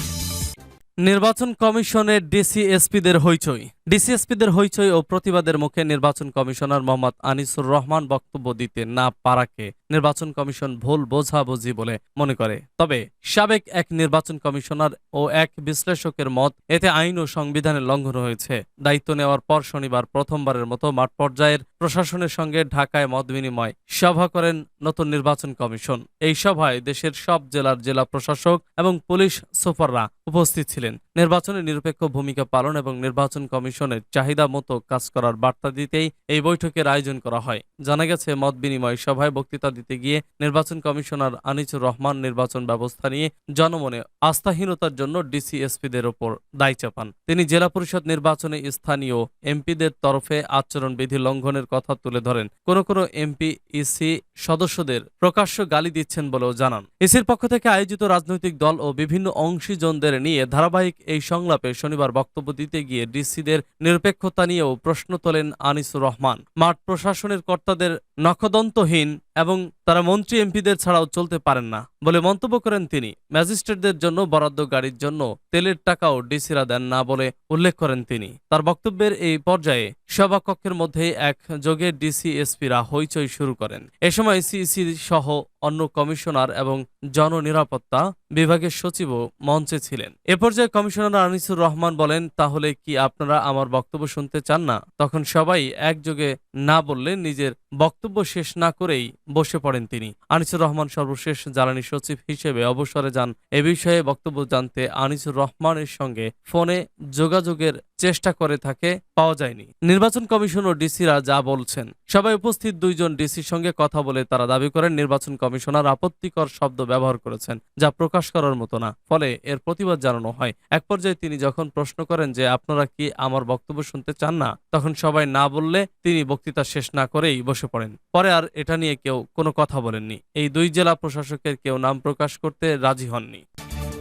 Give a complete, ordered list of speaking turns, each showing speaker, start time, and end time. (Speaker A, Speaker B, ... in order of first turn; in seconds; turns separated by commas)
Speaker A: 1.1-133.4